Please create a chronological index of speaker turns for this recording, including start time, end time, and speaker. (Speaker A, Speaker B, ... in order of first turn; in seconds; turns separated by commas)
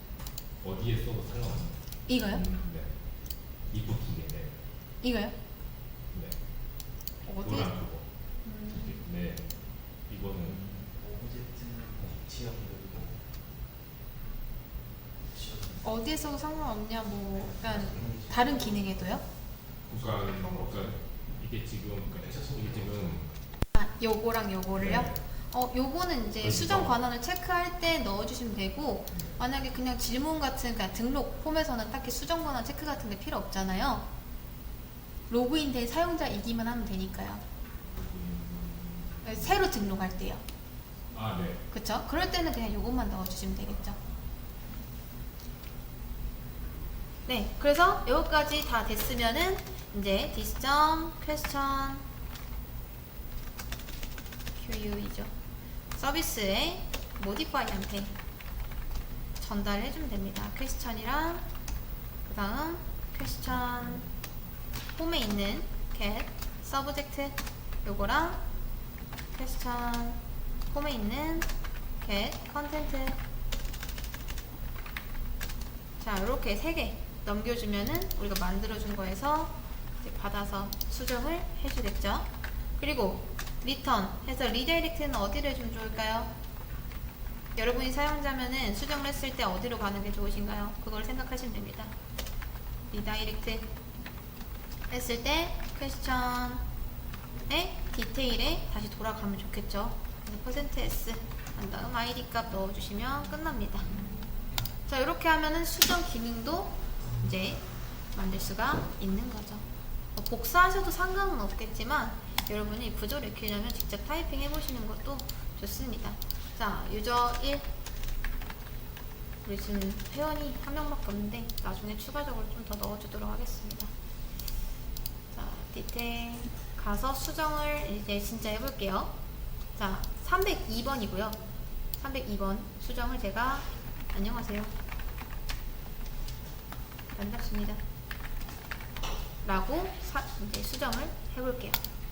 Speaker A: 0.6-3.0, Speaker B: 2.1-2.4, Speaker A: 3.7-4.6, Speaker B: 5.0-5.4, Speaker A: 6.1-6.4, Speaker B: 7.2-7.7, Speaker A: 7.4-8.1, Speaker B: 8.4-8.9, Speaker A: 8.7-9.5, Speaker A: 10.1-10.7, Speaker C: 11.0-13.1, Speaker C: 15.3-15.8, Speaker B: 15.8-19.2, Speaker C: 17.6-18.9, Speaker A: 19.9-23.3, Speaker C: 20.3-20.7, Speaker C: 22.4-22.6, Speaker B: 23.7-34.0, Speaker A: 24.8-25.2, Speaker A: 26.4-27.0, Speaker A: 29.1-29.4, Speaker B: 35.3-37.4, Speaker A: 37.9-39.3, Speaker B: 39.2-40.4, Speaker A: 41.1-41.6, Speaker B: 41.7-44.0, Speaker B: 47.3-52.0, Speaker B: 54.6-55.3, Speaker B: 56.0-58.1, Speaker B: 59.4-61.4, Speaker B: 62.2-64.1, Speaker B: 65.0-68.4, Speaker B: 69.3-71.5, Speaker B: 72.0-73.2, Speaker B: 76.0-86.3, Speaker B: 87.5-91.9, Speaker B: 92.9-93.7, Speaker B: 94.9-96.7, Speaker B: 97.5-103.9, Speaker B: 104.9-107.6, Speaker B: 108.1-109.6, Speaker B: 110.2-117.7, Speaker B: 119.5-123.9, Speaker B: 125.3-129.1, Speaker B: 129.8-131.4, Speaker B: 132.0-134.7, Speaker B: 137.1-137.8, Speaker B: 139.4-141.8